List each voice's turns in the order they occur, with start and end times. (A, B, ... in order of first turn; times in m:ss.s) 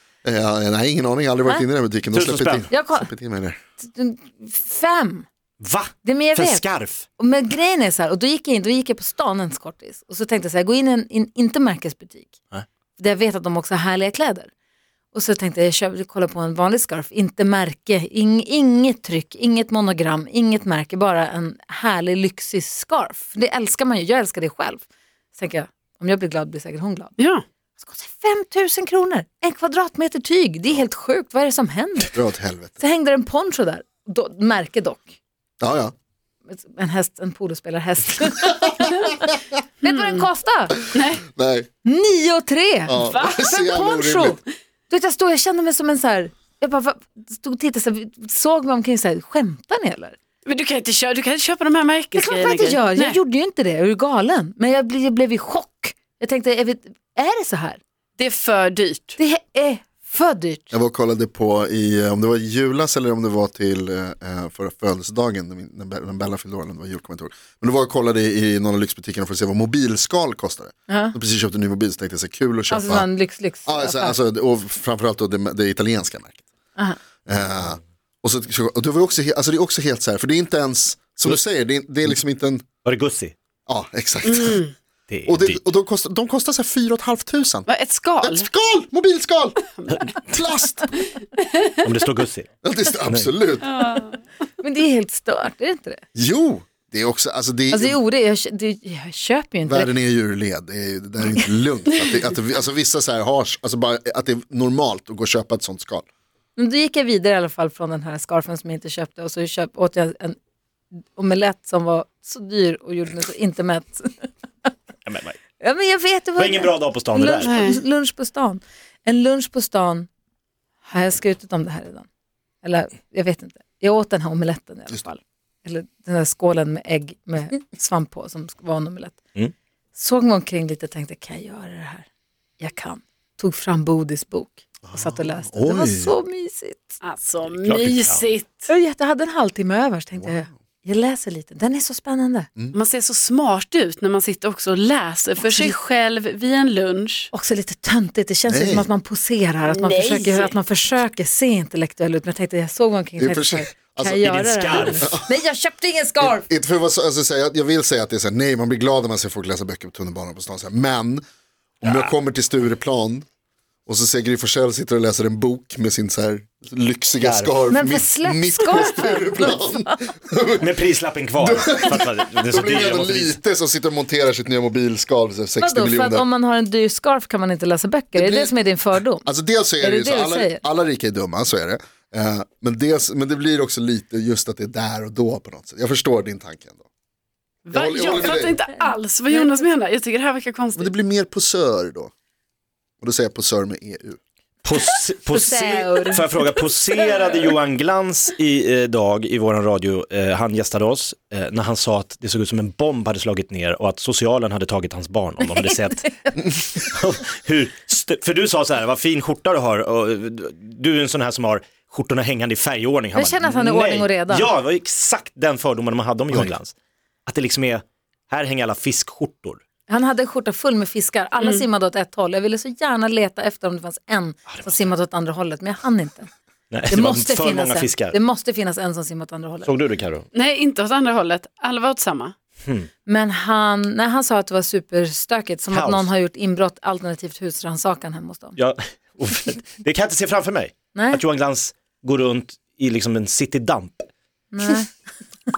0:00.2-0:03.6 A
0:02.1-0:02.7 B
0:02.7-0:03.1 C
0:03.8-0:05.2 C
0:05.6-0:07.0 B
0:06.0-0:06.7 C
0:07.2-0:12.4 C
0:13.0-0:14.5 C
0:15.1-0:24.8 C
0:25.4-0:27.1 C
0:27.2-0:27.4 D
0:27.8-0:32.2 C
0:32.1-0:32.8 A
0:32.8-0:35.2 C
0:35.6-0:35.9 A
0:36.5-0:39.2 C
0:39.8-0:40.8 C
0:39.8-0:40.2 D
0:40.9-0:41.2 D
0:41.3-0:41.7 A
0:41.8-0:50.2 C
0:42.9-0:44.4 A
0:43.0-0:43.5 D
0:50.4-0:53.2 D
0:52.2-0:57.8 C
0:58.2-0:59.2 D
0:59.2-1:00.7 C
1:00.7-1:13.1 A
1:10.9-1:11.2 C
1:12.7-1:14.2 C
1:13.6-1:16.4 A
1:17.3-1:22.7 A
1:22.8-1:23.4 B
1:23.7-1:24.6 A
1:24.2-1:24.7 D
1:25.1-1:25.6 B
1:25.3-1:27.7 A
1:27.7-1:28.5 D
1:28.2-1:29.6 A
1:29.9-1:30.2 B
1:30.2-1:31.0 A
1:31.8-1:32.5 B
1:32.6-1:33.8 A
1:33.6-1:34.2 D
1:34.6-1:36.0 C
1:36.2-1:38.0 A
1:37.7-1:39.9 C
1:39.7-1:46.1 A
1:46.6-1:50.4 C
1:51.2-1:54.7 C
1:55.1-1:55.4 B
1:55.6-2:00.1 C
1:56.4-1:57.6 B
1:57.5-1:57.8 D
2:00.9-2:02.1 C
2:02.6-2:09.2 C
2:10.0-2:12.1 C
2:12.6-2:17.0 C
2:14.8-2:16.2 A
2:17.0-2:18.7 D
2:17.4-2:18.3 B
2:18.7-2:22.5 C
2:20.2-2:20.5 A
2:22.7-2:27.3 D
2:25.4-2:25.8 C
2:27.3-2:36.4 C
2:28.5-2:28.9 A
2:29.6-2:30.6 D
2:33.2-2:35.3 A
2:34.2-2:35.2 B
2:36.2-2:41.2 A
2:41.8-2:43.2 A
2:41.8-2:42.1 B
2:43.9-2:50.8 A
2:47.2-2:47.6 B
2:47.7-2:50.1 C
2:50.6-2:53.4 B
2:51.4-2:56.3 A
2:55.6-2:59.2 C
2:58.2-2:58.5 A
2:59.2-3:06.8 A
2:59.8-3:00.6 C
3:07.7-3:10.9 D
3:07.7-3:08.6 A
3:09.3-3:09.6 C
3:10.8-3:12.1 A
3:13.0-3:14.2 A
3:14.6-3:26.0 B
3:15.3-3:16.3 C
3:25.4-3:26.4 C
3:26.8-3:36.7 B
3:33.1-3:34.5 C
3:37.3-3:39.6 B
3:39.9-3:46.3 C
3:46.7-3:48.2 B
3:46.9-3:49.7 C
3:49.6-3:50.3 B
3:50.3-3:52.4 D
3:53.1-3:58.6 C
3:55.7-3:56.1 B
3:58.6-4:04.1 B
4:00.9-4:01.2 C
4:04.5-4:04.9 C